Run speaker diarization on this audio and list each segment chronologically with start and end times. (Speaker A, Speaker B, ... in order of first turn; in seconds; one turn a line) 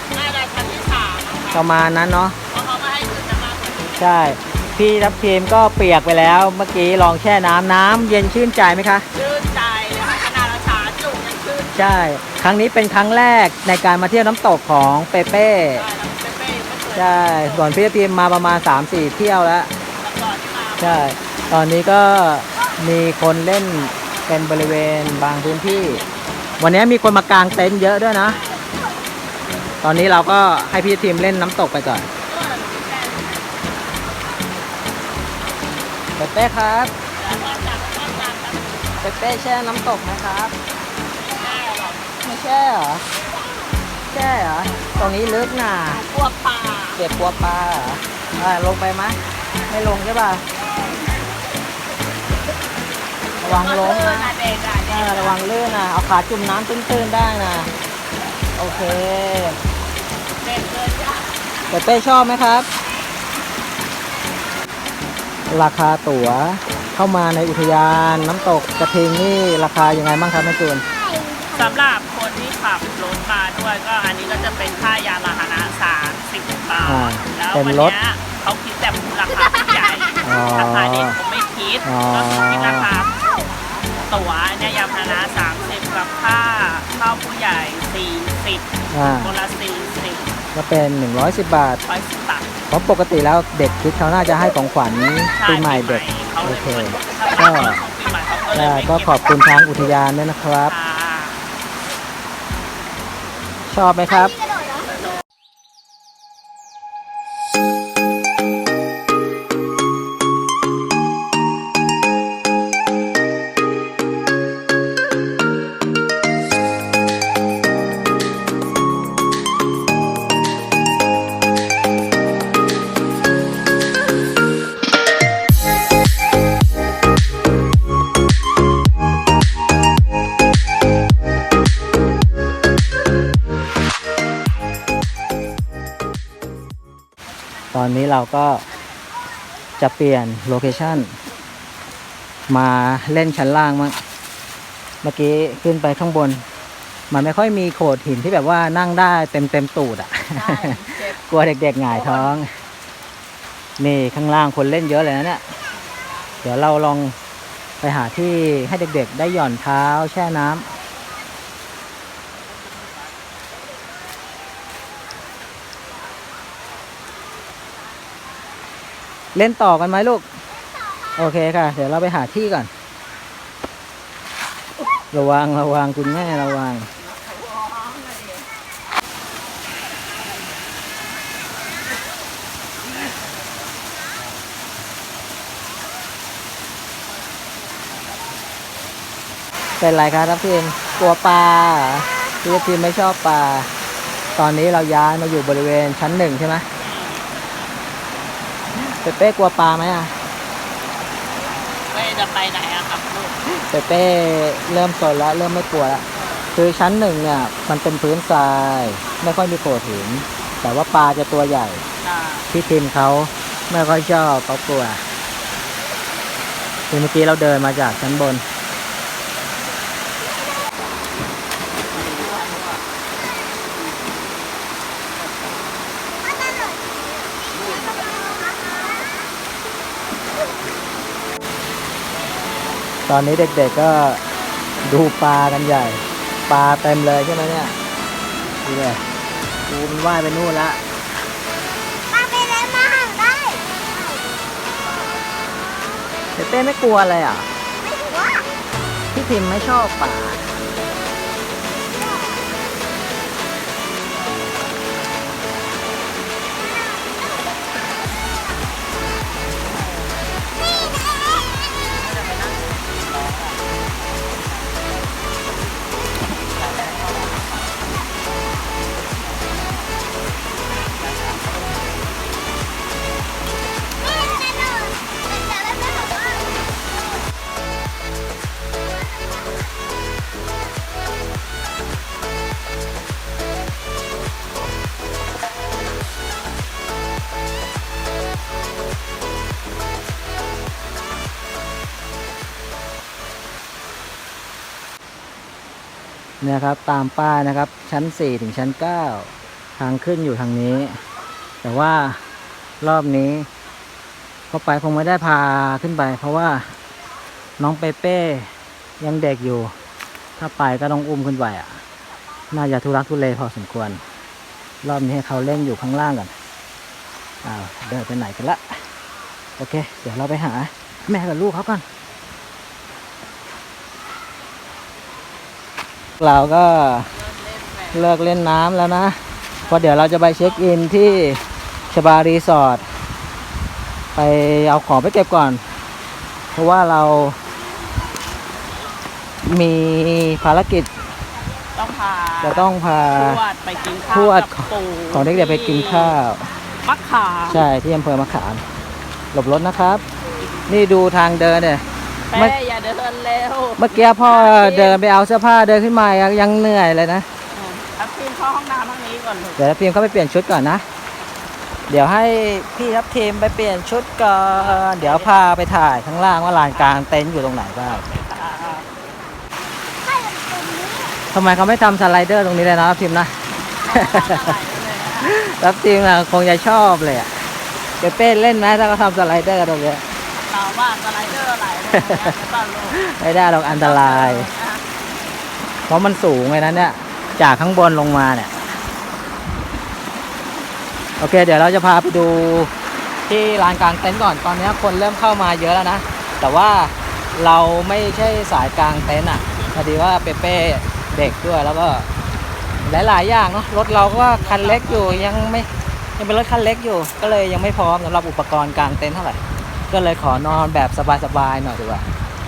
Speaker A: 0.1-1.7
Speaker B: 1.5-2.4
Speaker A: 2.5-4.1
Speaker B: 4.0-9.1
Speaker A: 9.1-11.8
Speaker B: 11.7-15.9
Speaker A: 15.7-17.8
Speaker B: 16.9-19.7
Speaker A: 20.0-21.2
Speaker B: 20.8-26.0
Speaker A: 25.4-26.8
Speaker B: 26.6-28.4
Speaker A: 28.2-28.7
Speaker B: 29.8-32.1
Speaker A: 32.2-33.6
Speaker B: 36.2-36.9
Speaker A: 37.1-38.9
Speaker B: 39.0-40.5
Speaker A: 41.2-42.1
Speaker B: 42.2-43.1
Speaker B: 44.1-46.0
Speaker A: 45.9-47.0
Speaker B: 47.0-50.4
Speaker B: 53.4-54.3
Speaker A: 53.4-55.4
Speaker B: 54.9-57.7
Speaker B: 58.6-59.6
Speaker A: 60.4-61.3
Speaker B: 61.7-62.7
Speaker B: 65.5-70.8
Speaker C: 70.9-71.9
Speaker A: 71.5-83.1
Speaker B: 76.8-78.0
Speaker B: 80.2-81.2
Speaker B: 81.8-82.9
Speaker A: 84.0-90.3
Speaker B: 88.9-89.4
Speaker B: 90.5-91.8
Speaker A: 91.8-92.5
Speaker B: 92.7-97.8
Speaker A: 95.3-99.7
Speaker B: 98.5-100.8
Speaker A: 100.7-101.4
Speaker B: 103.7-104.4
Speaker B: 137.7-138.6
Speaker B: 139.8-141.2
Speaker B: 142.5-144.0
Speaker B: 145.0-146.4
Speaker B: 147.1-152.5
Speaker A: 150.3-151.2
Speaker A: 151.9-152.4
Speaker B: 153.8-155.4
Speaker B: 156.4-157.2
Speaker B: 157.8-160.7
Speaker B: 169.3-170.2
Speaker B: 171.2-172.7
Speaker B: 175.1-176.9
Speaker B: 189.8-193.7
Speaker B: 194.4-196.7
Speaker A: 196.8-197.3
Speaker B: 198.7-200.1
Speaker A: 201.7-203.4
Speaker B: 203.5-206.0
Speaker A: 206.2-206.5
Speaker B: 206.6-211.8
Speaker A: 212.0-212.5
Speaker B: 212.5-215.0
Speaker B: 216.9-218.4
Speaker A: 222.2-222.7
Speaker B: 233.1-234.2
Speaker B: 234.8-237.8
Speaker B: 238.6-239.0
Speaker B: 239.7-240.8
Speaker C: 242.1-243.8
Speaker B: 246.4-247.5
Speaker C: 247.9-248.4
Speaker B: 249.1-250.5
Speaker B: 296.4-301.0
Speaker B: 301.6-302.2
Speaker B: 302.8-303.5
Speaker B: 304.5-306.7
Speaker B: 307.6-309.7
Speaker B: 310.4-311.8
Speaker B: 312.5-314.0
Speaker B: 314.8-316.3
Speaker B: 317.4-318.6
Speaker B: 319.6-321.8
Speaker B: 326.2-327.1
Speaker A: 327.2-328.0
Speaker B: 327.9-332.8
Speaker A: 329.6-331.3
Speaker B: 334.1-335.6
Speaker B: 336.5-337.4
Speaker B: 339.5-340.9
Speaker A: 341.8-346.2
Speaker B: 342.4-343.4
Speaker B: 344.1-346.5
Speaker A: 346.8-347.7
Speaker B: 347.5-348.6
Speaker B: 349.3-350.0
Speaker B: 350.7-352.6
Speaker A: 352.3-355.0
Speaker B: 353.8-357.3
Speaker A: 357.5-359.6
Speaker B: 359.6-360.8
Speaker B: 361.9-368.1
Speaker A: 364.6-365.4
Speaker A: 366.7-367.0
Speaker A: 367.9-368.9
Speaker C: 370.0-371.2
Speaker B: 371.3-373.3
Speaker A: 373.8-375.4
Speaker B: 373.9-374.5
Speaker B: 375.2-377.3
Speaker B: 378.0-380.0
Speaker A: 380.3-383.0
Speaker B: 381.9-382.3
Speaker B: 382.9-384.5
Speaker A: 383.7-384.8
Speaker B: 385.9-388.5
Speaker B: 391.2-392.7
Speaker B: 393.3-402.1
Speaker B: 402.9-409.4
Speaker A: 403.9-405.5
Speaker B: 409.9-412.0